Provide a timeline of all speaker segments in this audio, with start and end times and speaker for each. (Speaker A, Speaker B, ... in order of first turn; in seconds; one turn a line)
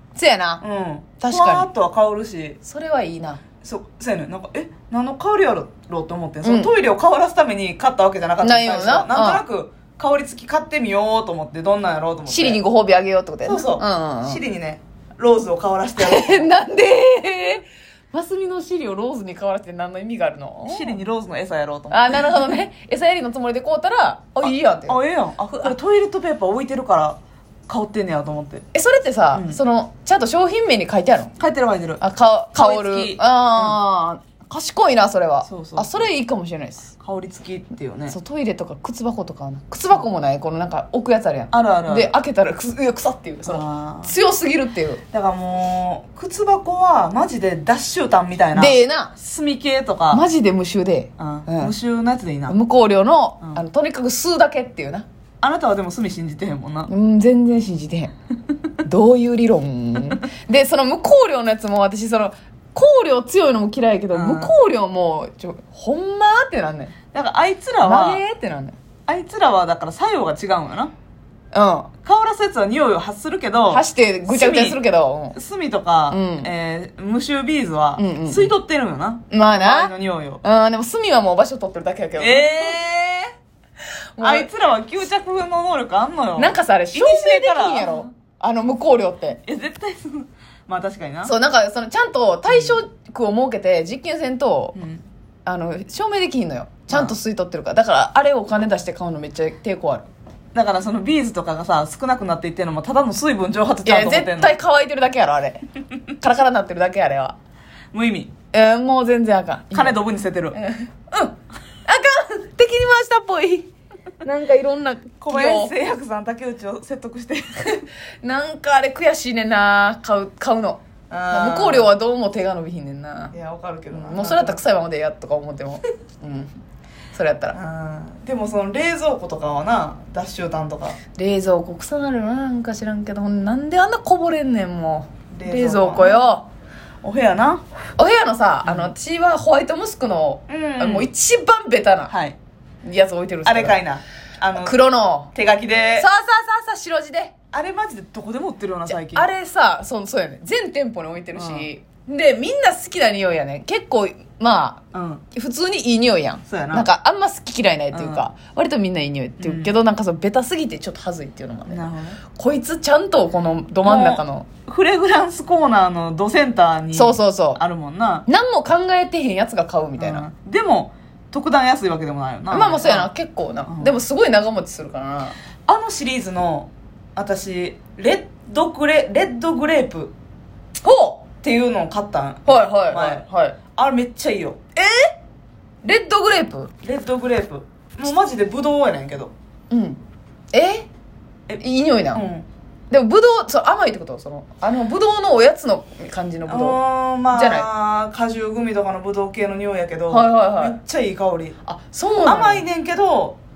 Speaker A: 0.2-0.6
Speaker B: 0.6-2.6
Speaker A: 1.2-1.7
Speaker A: 2.6-3.4
Speaker B: 3.6-12.6
Speaker A: 6.4-6.7
Speaker A: 8.4-9.4
Speaker A: 12.3-14.4
Speaker B: 13.5-16.5
Speaker A: 16.0-21.0
Speaker B: 20.7-22.6
Speaker A: 21.9-25.0
Speaker B: 24.4-28.6
Speaker A: 28.7-31.3
Speaker B: 29.3-29.6
Speaker B: 31.4-32.0
Speaker A: 32.0-36.9
Speaker B: 32.5-33.8
Speaker B: 35.5-36.1
Speaker B: 37.0-38.2
Speaker A: 38.1-45.0
Speaker B: 41.5-42.1
Speaker B: 43.5-44.1
Speaker B: 45.1-50.3
Speaker A: 48.5-49.1
Speaker A: 50.1-51.7
Speaker B: 51.2-52.6
Speaker A: 52.5-55.1
Speaker B: 55.4-56.9
Speaker A: 56.9-58.1
Speaker A: 58.8-67.0
Speaker B: 64.1-64.5
Speaker B: 67.1-68.2
Speaker A: 67.8-68.8
Speaker B: 69.1-70.9
Speaker A: 71.5-71.9
Speaker B: 72.0-74.8
Speaker A: 73.7-75.4
Speaker B: 75.3-80.4
Speaker A: 76.1-76.5
Speaker A: 78.0-78.5
Speaker A: 79.3-79.9
Speaker A: 80.4-82.8
Speaker B: 82.2-83.3
Speaker A: 84.2-84.5
Speaker B: 84.2-88.1
Speaker A: 86.4-89.4
Speaker B: 89.4-91.3
Speaker A: 91.2-94.8
Speaker B: 92.5-92.8
Speaker B: 94.8-95.0
Speaker A: 95.5-100.1
Speaker B: 96.9-97.2
Speaker B: 100.5-104.6
Speaker A: 103.8-105.6
Speaker A: 106.2-107.4
Speaker B: 107.9-108.3
Speaker A: 108.5-110.0
Speaker B: 109.7-110.6
Speaker A: 110.5-113.7
Speaker A: 114.2-115.7
Speaker B: 115.2-117.8
Speaker A: 117.8-123.3
Speaker B: 121.1-121.9
Speaker B: 123.3-124.6
Speaker A: 123.9-126.5
Speaker A: 127.1-127.5
Speaker B: 127.5-131.0
Speaker A: 131.2-136.4
Speaker B: 135.3-136.2
Speaker B: 137.0-137.6
Speaker A: 138.0-142.1
Speaker B: 138.6-138.9
Speaker B: 140.5-141.1
Speaker B: 142.1-142.4
Speaker A: 142.8-143.8
Speaker B: 143.4-144.8
Speaker A: 144.6-145.3
Speaker B: 145.3-146.1
Speaker A: 146.0-147.3
Speaker B: 147.5-149.3
Speaker A: 148.9-164.5
Speaker B: 151.3-151.7
Speaker B: 154.9-155.2
Speaker B: 156.5-156.9
Speaker B: 157.9-158.2
Speaker B: 159.4-159.7
Speaker B: 161.7-162.2
Speaker B: 163.8-168.3
Speaker A: 166.9-167.6
Speaker A: 168.3-170.3
Speaker B: 170.0-173.1
Speaker A: 172.5-175.4
Speaker B: 173.7-174.0
Speaker B: 175.7-180.1
Speaker A: 180.8-181.2
Speaker B: 181.4-183.2
Speaker A: 182.5-183.6
Speaker B: 183.8-184.6
Speaker A: 184.8-185.1
Speaker A: 185.8-186.7
Speaker B: 186.8-189.3
Speaker A: 189.7-190.0
Speaker A: 190.5-190.9
Speaker A: 191.6-192.2
Speaker B: 192.1-192.5
Speaker A: 192.9-196.8
Speaker B: 196.5-201.6
Speaker A: 197.3-197.7
Speaker A: 200.1-200.8
Speaker A: 201.7-202.7
Speaker B: 202.2-203.4